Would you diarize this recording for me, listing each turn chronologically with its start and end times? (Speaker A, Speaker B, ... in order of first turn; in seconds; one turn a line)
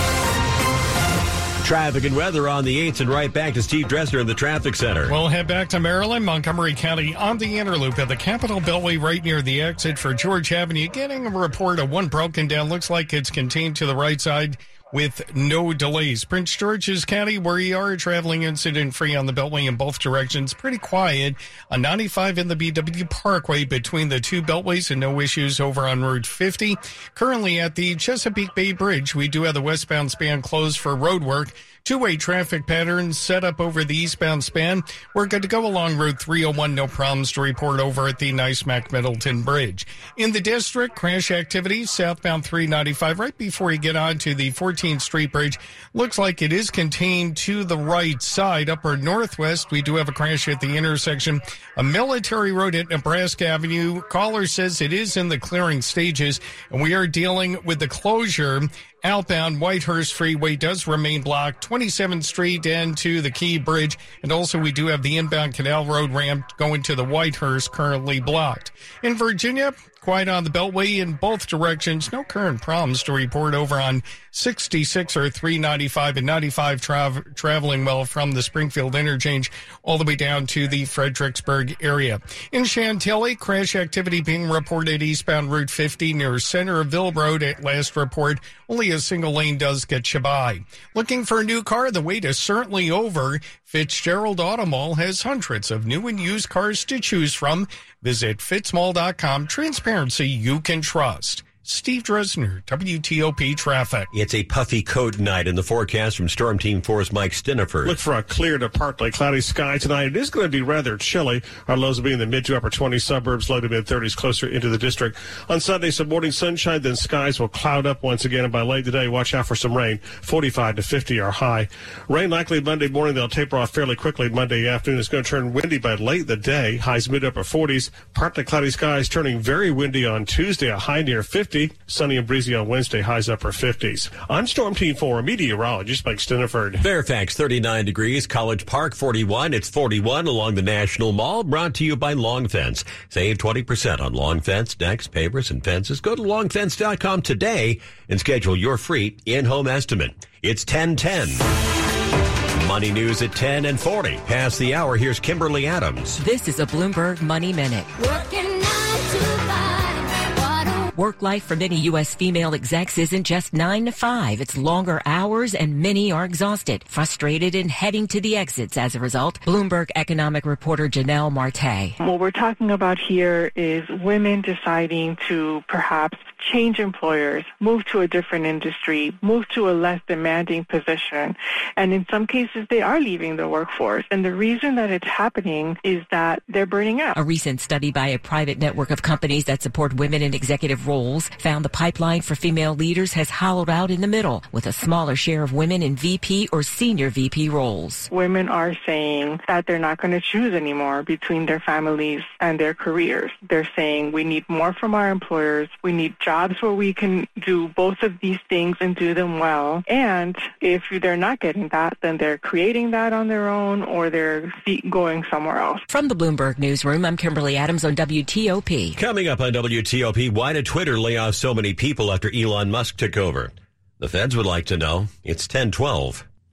Speaker A: 1.6-5.1
Speaker B: 5.1-104.1
Speaker A: 104.1-108.0
Speaker C: 107.8-136.8
Speaker A: 136.8-151.4
Speaker A: 152.6-156.2
Speaker D: 156.2-157.9
Speaker D: 160.9-171.9
Speaker E: 172.0-187.2
Speaker D: 187.2-198.1
Speaker E: 198.1-215.8
Speaker D: 215.9-219.0
Speaker A: 218.9-226.2